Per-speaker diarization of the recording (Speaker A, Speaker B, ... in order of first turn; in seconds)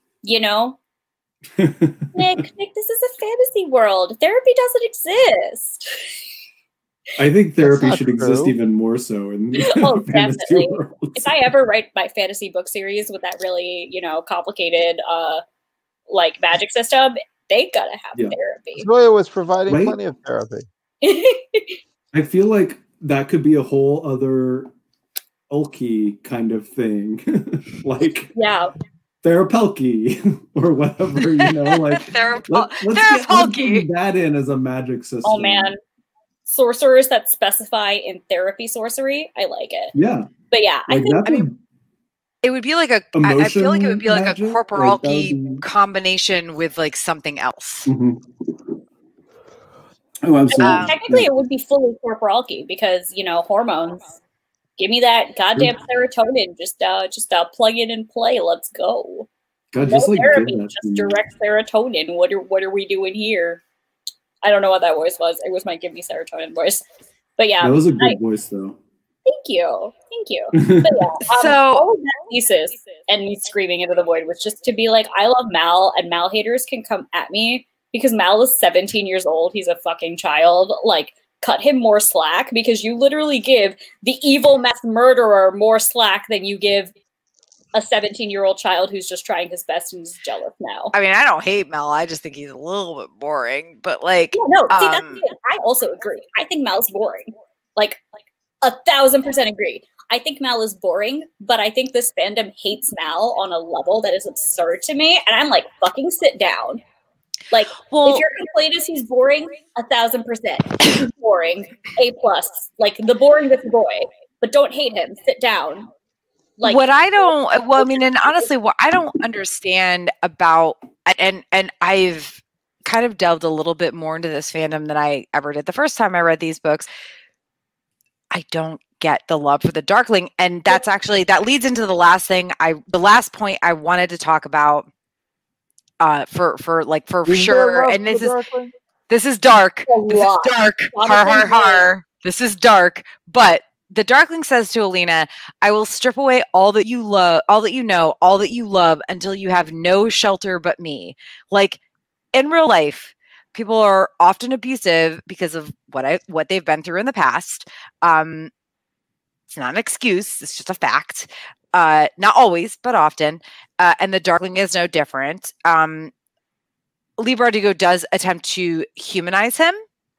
Speaker A: 0.2-0.8, 2.1-5.9, 9.6-15.4, 16.1-18.9, 21.0-21.8, 28.3-28.7, 35.2-35.8, 36.5-39.9, 40.5-41.5, 50.5-54.2, 54.8-59.3, 59.9-63.6, 64.4-66.8, 67.4-68.2, 69.2-86.9, 87.7-90.9, 94.3-98.0, 98.6-106.8, 107.5-115.9, 116.6-118.5, 139.9-141.9
Speaker B: 1.6-2.2, 7.2-11.5, 19.7-20.0, 22.1-24.7, 25.5-28.3, 29.2-35.7, 39.9-40.3, 40.9-41.6, 43.1-45.6, 47.9-48.7, 50.2-51.3, 59.7-61.2, 67.6-68.8, 70.5-71.0
Speaker C: 7.6-8.6, 18.8-20.6, 137.2-138.7
Speaker D: 31.4-33.9, 42.4-47.9, 50.6-51.0, 71.3-71.8, 90.9-95.2, 107.9-108.2, 116.6-126.9, 128.3-134.8, 136.0-138.4, 139.1-151.8, 152.3-158.5, 159.5-166.1, 167.2-169.8